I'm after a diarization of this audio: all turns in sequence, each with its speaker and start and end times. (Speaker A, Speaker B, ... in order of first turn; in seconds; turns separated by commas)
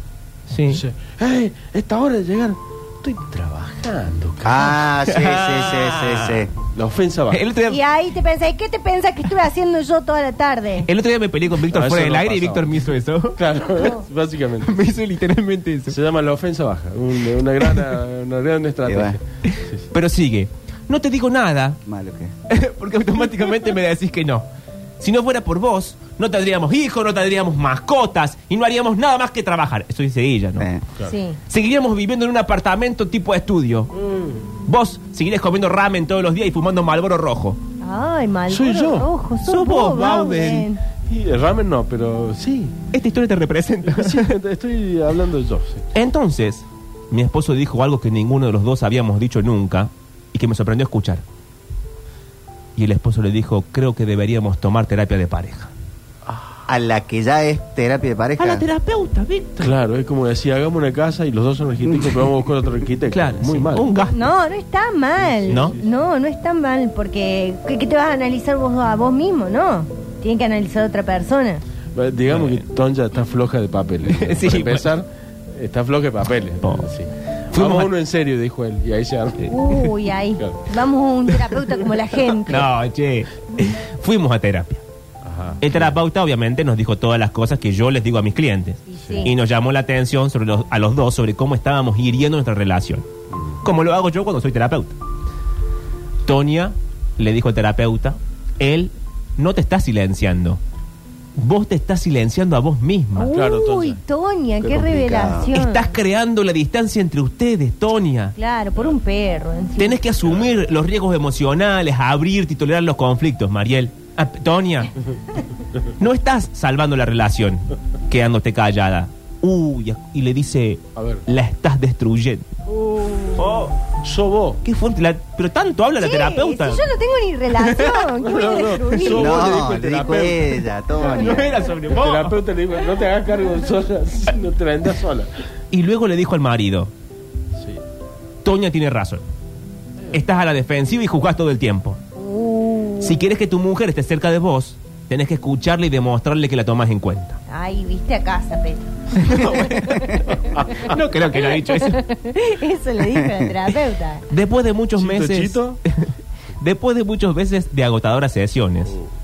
Speaker A: 0.5-0.8, Speaker B: 0.7-4.9, Speaker C: 4.4-6.5, Speaker A: 5.0-6.5, Speaker B: 6.7-7.4, Speaker A: 7.3-7.8, Speaker D: 7.7-10.9, Speaker A: 10.8-13.4, Speaker B: 11.7-14.8, Speaker D: 13.8-14.0, Speaker A: 14.6-16.0, Speaker B: 15.9-19.9, Speaker C: 18.9-19.2, Speaker A: 19.5-21.8, Speaker C: 21.9-22.3, Speaker A: 22.5-24.5, Speaker A: 25.0-30.7, Speaker D: 31.1-31.4, Speaker A: 31.5-33.9, Speaker B: 33.9-34.6, Speaker A: 34.6-37.6, Speaker D: 37.8-40.8, Speaker B: 38.5-39.1, Speaker A: 39.4-40.7, Speaker B: 40.1-42.8, Speaker A: 42.9-44.3, Speaker B: 43.9-45.9, Speaker A: 45.9-51.2, Speaker A: 52.8-55.7, Speaker C: 56.7-58.6, Speaker A: 58.4-59.7, Speaker B: 59.6-63.9, Speaker A: 63.1-64.2, Speaker D: 64.1-71.6, Speaker B: 65.2-65.9, Speaker A: 65.5-65.8, Speaker B: 71.9-79.5, Speaker A: 72.3-72.7, Speaker A: 74.1-74.9, Speaker A: 76.6-76.9, Speaker A: 77.5-77.9, Speaker D: 79.5-82.7, Speaker A: 79.5-79.8, Speaker A: 82.5-84.8, Speaker B: 85.2-85.9, Speaker A: 85.6-93.1, Speaker D: 88.9-89.3, Speaker B: 93.3-93.6, Speaker A: 93.6-95.0, Speaker A: 96.2-100.6, Speaker A: 101.4-103.3, Speaker D: 103.2-106.0, Speaker B: 103.3-104.0, Speaker C: 104.6-105.5, Speaker A: 105.3-108.3, Speaker D: 108.3-110.0, Speaker A: 109.8-114.9, Speaker A: 116.0-122.5, Speaker B: 121.0-121.2, Speaker B: 122.7-124.6, Speaker A: 123.4-123.8, Speaker A: 124.6-126.9, Speaker D: 126.0-129.5, Speaker A: 127.5-128.2, Speaker B: 128.2-135.3, Speaker C: 129.1-131.5, Speaker A: 131.0-132.4, Speaker A: 135.7-136.9, Speaker B: 137.6-137.8, Speaker A: 138.4-139.2, Speaker A: 140.1-142.0, Speaker D: 142.2-143.2, Speaker A: 143.0-147.4, Speaker D: 147.5-148.9, Speaker A: 149.2-152.0, Speaker D: 151.8-154.2, Speaker C: 153.2-153.5, Speaker A: 154.3-159.0, Speaker B: 155.0-155.8